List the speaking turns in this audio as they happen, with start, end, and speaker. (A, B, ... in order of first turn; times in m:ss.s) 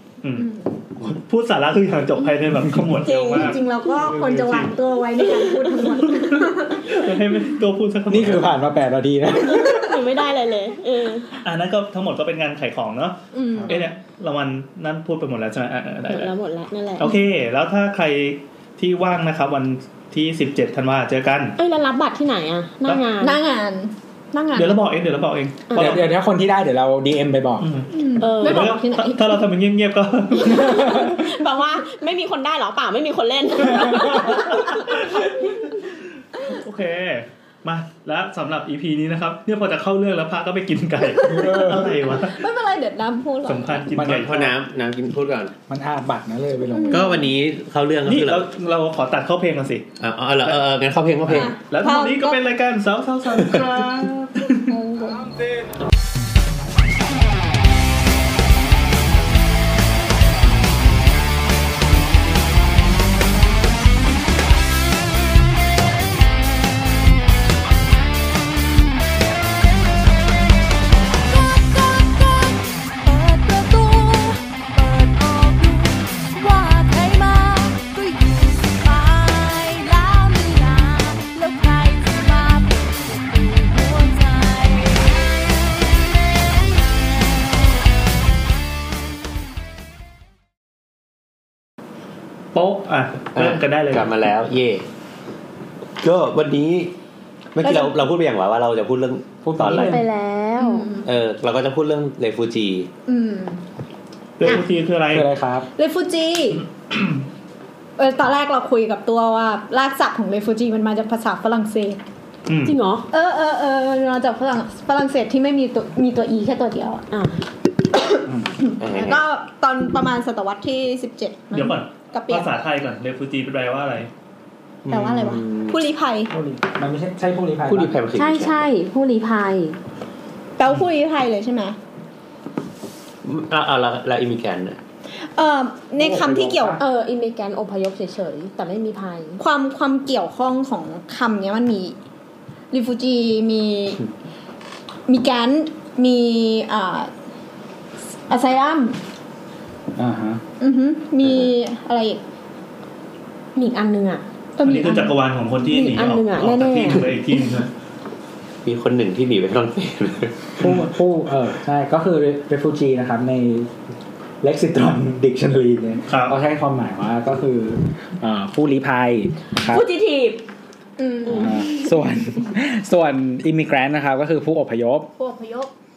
0:00.2-0:04.8 A
0:00.4-0:00.7 B
0:03.0-0:03.6 C
0:03.3-0:07.1 B
0:05.4-0:06.0 C
0:06.0-0:08.5 A
0:08.1-0:10.0 D
0:09.3-0:11.3 C
0:11.4-0:13.2 A
0:13.3-0:13.8 B
0:13.5-0:13.8 D
0:13.7-0:16.3 A
0:16.1-0:17.1 C
0:17.0-0:21.6 A
0:21.6-0:23.4 C
0:23.2-0:24.9 B
0:24.5-0:26.0 A
0:25.7-0:26.0 C
0:25.7-0:27.7 D
0:27.6-0:30.9 A
0:27.9-0:29.4 B
0:28.2-0:28.7 C
0:30.4-0:31.3 D
0:30.5-0:35.0 C
0:33.9-0:42.4 A
0:41.3-0:41.8 D
0:41.3-0:43.8 B
0:43.4-0:44.5 A
0:43.9-0:44.2 D
0:44.1-0:45.5 E
0:45.7-0:47.2 D
0:46.7-0:47.2 B
0:46.9-0:48.4 E
0:48.0-0:49.9 A
0:50.0-0:51.5 E
0:51.3-0:54.6 A
0:51.4-0:52.4 B
0:54.7-0:55.3 B
1:11.3-1:25.0 F
1:32.5-1:34.1 A
1:33.3-1:34.8 E
1:36.0-1:36.9 E
1:37.5-1:40.0 E
1:39.4-1:40.0 D
1:39.6-1:40.0 A
1:39.7-1:40.9 C
1:40.6-1:41.1 B
1:41.0-1:42.9 E
1:43.1-1:43.6 B
1:44.4-1:45.3 A
1:45.1-1:45.7 D
1:45.8-1:46.6 B
1:46.9-1:47.2 A
1:48.0-1:52.0 B
1:52.5-1:52.8 A
1:52.6-1:53.1 C
1:53.1-1:57.0 B
1:57.1-1:57.4 C
1:57.9-2:02.5 B
1:58.3-1:58.6 D
1:58.8-1:59.2 E
2:01.5-2:04.1 A
2:04.8-2:05.8 E
2:04.9-2:06.3 B
2:06.3-2:07.9 D
2:07.7-2:08.6 E
2:08.1-2:09.8 C
2:10.6-2:11.8 B
2:13.2-2:14.8 E
2:15.2-2:16.8 B
2:16.0-2:16.8 D
2:16.8-2:19.4 C
2:19.4-2:22.0 B
2:22.7-2:24.0 B
2:25.1-2:27.1 B
2:28.3-2:29.0 B
2:30.0-2:30.4 D
2:30.6-2:32.2 B
2:33.6-2:34.2 C
2:34.6-2:35.2 B
2:34.6-2:37.7 A
2:35.7-2:37.1 C
2:38.6-2:40.8 E
2:40.6-2:43.7 D
2:44.4-2:49.8 D
2:46.1-2:46.3 A
2:49.6-2:50.4 C
2:51.0-2:51.6 B
2:51.3-2:55.1 D
2:55.2-2:55.7 B